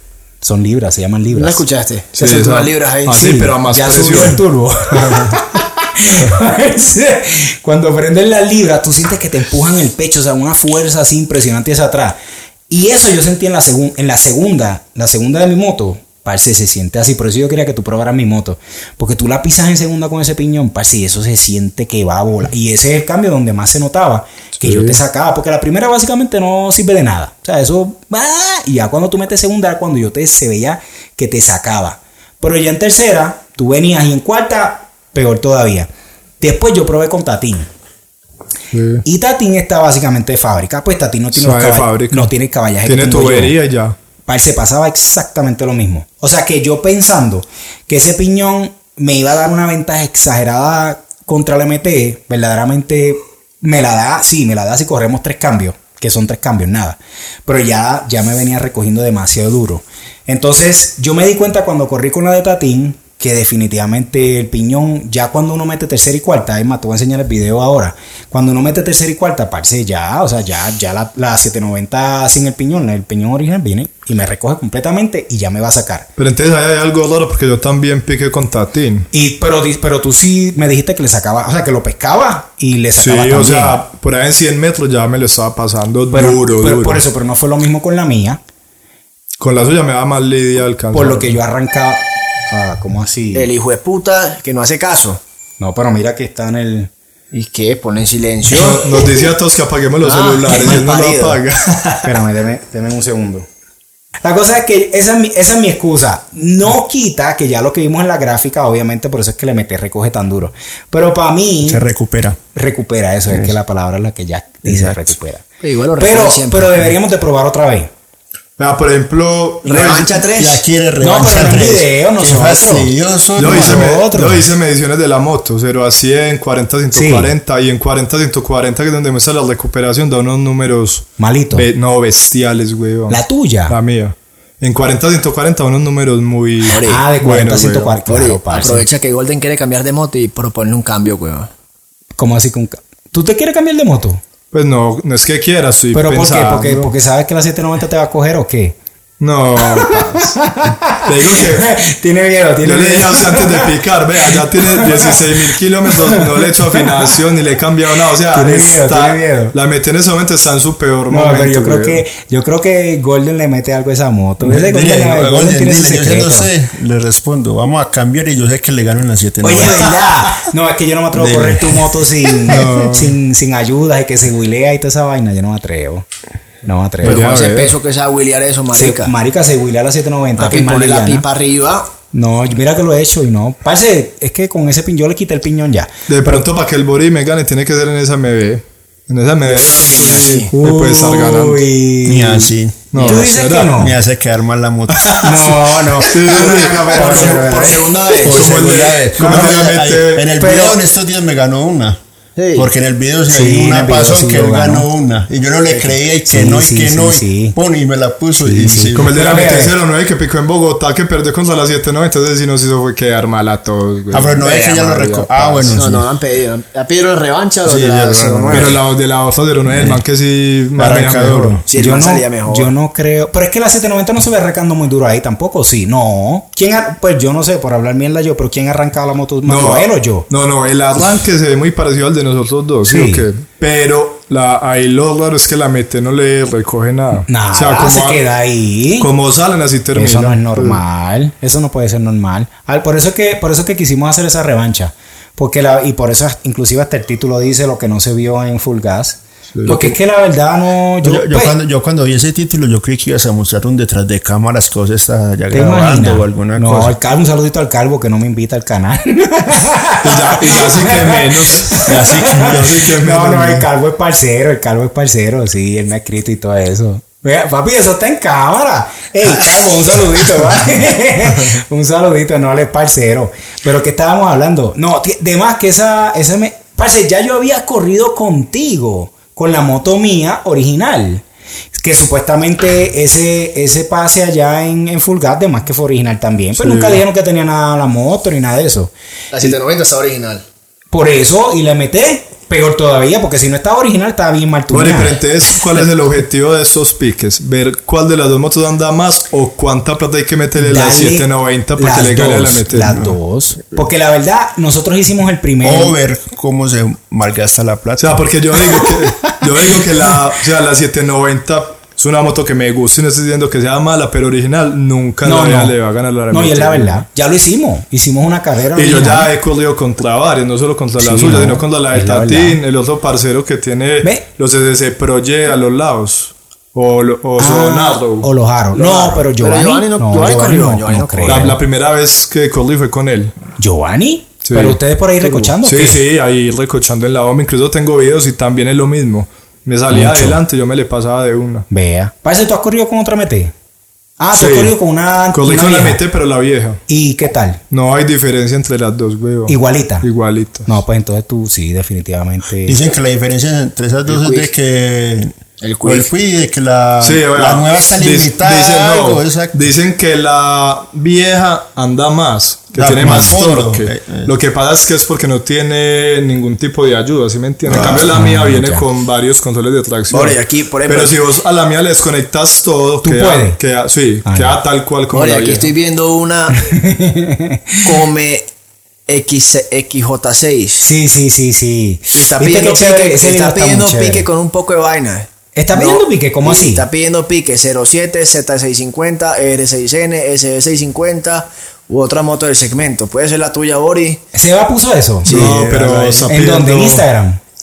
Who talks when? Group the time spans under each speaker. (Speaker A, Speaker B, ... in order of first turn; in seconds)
Speaker A: 0.4-1.6, 3.1-12.2, 12.7-35.9, 36.4-37.7, 39.0-43.6, 44.2-76.1, 79.1-83.8, 86.1-88.4, 90.9-93.5, 95.6-96.9, 102.0-103.5, 104.2-111.8, 112.5-115.4, 116.0-117.9, 121.0-124.5, 126.9-127.3, 131.2-131.7, 133.1-133.8, 136.8-138.8, 142.2-144.2, 145.9-148.8, 149.6-153.7, 154.3-155.2, 155.9-156.5, 158.3-159.5, 161.1-166.5, 169.4-176.1, 176.6-177.3, 178.7-181.2, 182.1-186.4, 190.6-194.0, 195.2-197.9, 199.2-199.5, 200.4-200.8, 203.3-204.9, 206.3-207.6, 208.4-209.8, 221.7-230.2, 232.8-233.3, 237.3-239.1, 239.9-251.6, 255.5-288.9, 290.9-295.2, 300.6-305.9, 315.2-315.8, 316.3-319.3, 321.0-322.6, 327.4-331.6, 333.6-336.0, 339.9-340.4, 341.7-343.5, 344.2-346.0, 346.9-347.6, 349.5-350.1, 350.6-352.8, 363.0-363.3, 367.7-368.9, 373.0-373.6, 374.2-374.6, 376.6-377.8, 380.8-384.3, 385.5-386.9, 394.3-395.5, 396.3-397.4
Speaker B: 1.3-3.2, 93.3-95.2, 97.3-99.2, 100.0-101.4, 115.6-117.0, 119.6-120.6, 136.7-137.0, 138.1-141.5, 177.0-179.1, 180.4-181.9, 189.4-190.5, 192.9-193.3, 196.8-198.7, 202.4-202.7, 215.7-218.8, 221.7-222.7, 289.3-290.4, 328.7-331.5, 335.2-335.5, 354.1-354.5, 355.6-356.1, 370.1-371.2, 375.1-376.7, 377.8-378.5, 379.1-380.8, 382.1-394.2, 395.2-396.3
Speaker C: 2.1-4.4, 24.6-25.0, 38.7-39.0, 41.3-42.3, 42.8-44.0, 76.2-79.1, 83.0-87.0, 89.4-91.4, 98.5-102.1, 118.6-120.2, 123.4-138.1, 144.5-146.9, 149.2-150.3, 151.0-151.7, 152.6-162.0, 172.5-173.1, 177.0-177.8, 186.1-191.6, 192.9-193.8, 194.9-197.5, 198.2-200.3, 208.9-215.6, 218.5-221.6, 229.4-238.2, 239.0-240.8, 249.5-249.8, 260.0-263.6, 286.6-287.0, 294.7-303.1, 308.0-317.0, 318.7-328.3, 331.2-333.3, 334.4-334.8, 335.6-341.7, 344.3-344.7, 345.3-346.8, 347.7-350.7, 357.0-375.7, 395.2-397.0
Speaker D: 111.7-112.4, 113.3-113.5, 114.7-115.0, 120.3-123.8, 164.4-170.1, 171.1-171.8, 172.5-172.9, 192.0-193.0, 193.7-195.6, 198.2-202.0, 202.5-209.4, 214.1-216.1, 217.6-218.8, 219.7-220.0, 220.8-221.6, 249.7-249.9, 251.0-256.9, 261.9-262.7, 305.6-308.3, 352.6-359.6, 362.8-364.3, 367.7-368.1, 395.3-396.2